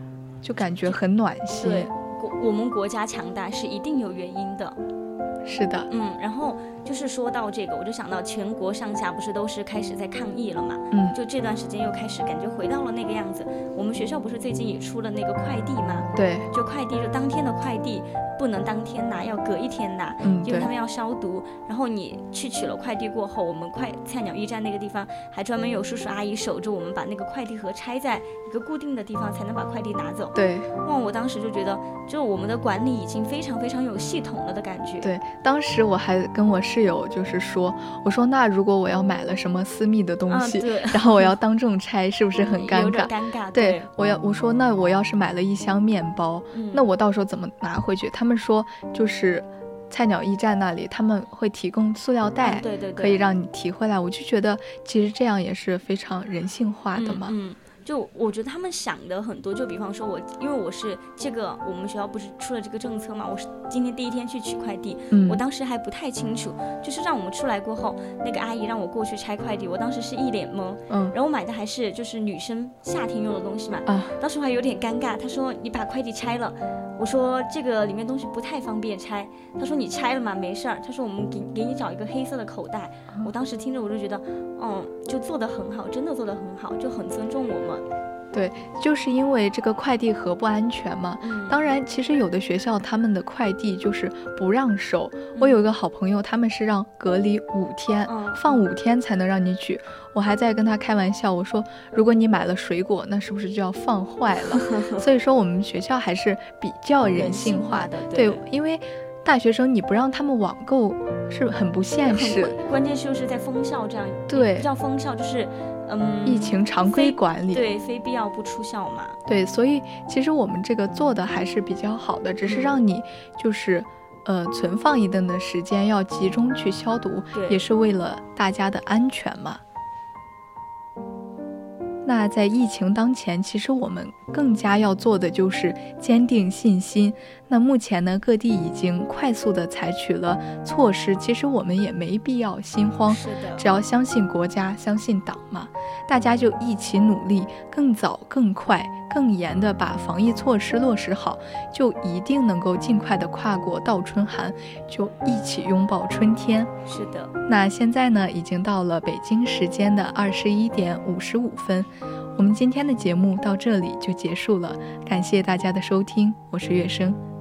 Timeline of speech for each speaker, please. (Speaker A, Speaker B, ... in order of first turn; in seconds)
Speaker A: 0.4-1.9, 5.4-5.9, 10.9-11.2, 16.1-16.5, 20.2-20.7, 30.4-30.7, 35.0-57.3, 65.1-65.4, 70.9-71.2, 73.9-74.2, 88.3-112.6, 114.3-114.7, 116.2-117.7, 119.3-129.6, 132.0-156.7, 157.5-167.2
Speaker B: 0.6-1.0, 1.6-4.8, 5.9-35.1, 40.3-41.3, 42.4-43.9, 46.5-46.8, 52.4-53.2, 57.0-87.8, 91.2-91.6, 95.3-95.6, 98.1-98.6, 104.5-105.0, 107.1-108.4, 112.1-119.2, 122.5-122.8, 127.3-127.6, 143.1-143.7, 156.9-157.3